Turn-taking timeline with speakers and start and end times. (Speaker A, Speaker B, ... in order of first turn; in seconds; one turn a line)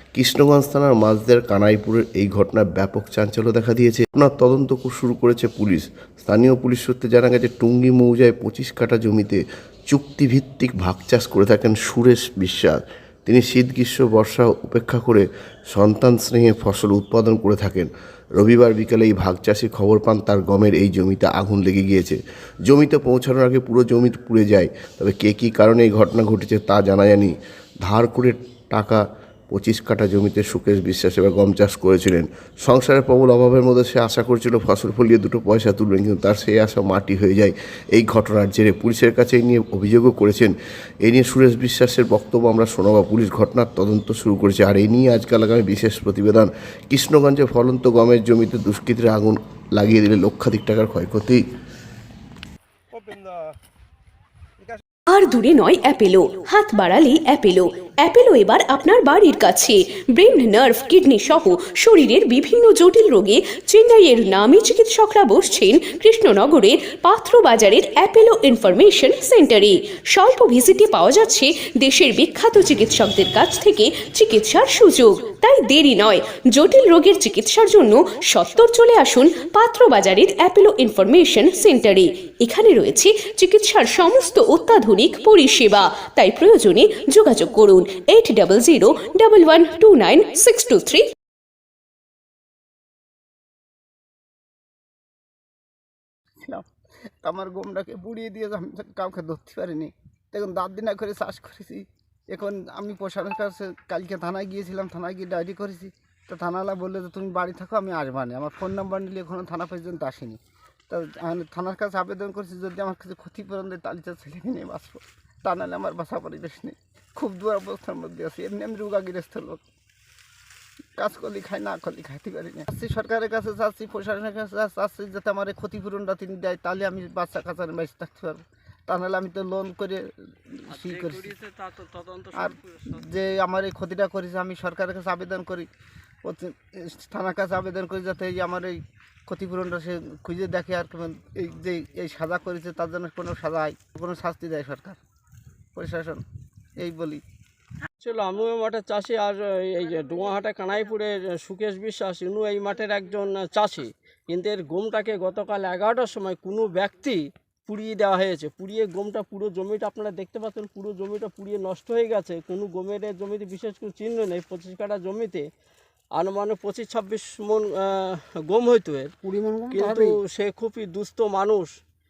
Speaker A: 0.1-51.5
Speaker B: 55.1-91.1
Speaker C: 97.2-119.6
Speaker C: 121.0-131.3
Speaker D: 130.9-132.8
Speaker C: 132.3-135.7
Speaker C: 136.2-145.0
Speaker C: 145.8-146.2
Speaker C: 146.8-147.2
Speaker D: 148.0-165.5
Speaker D: 166.2-169.1
Speaker C: 169.2-170.2
Speaker D: 169.8-171.7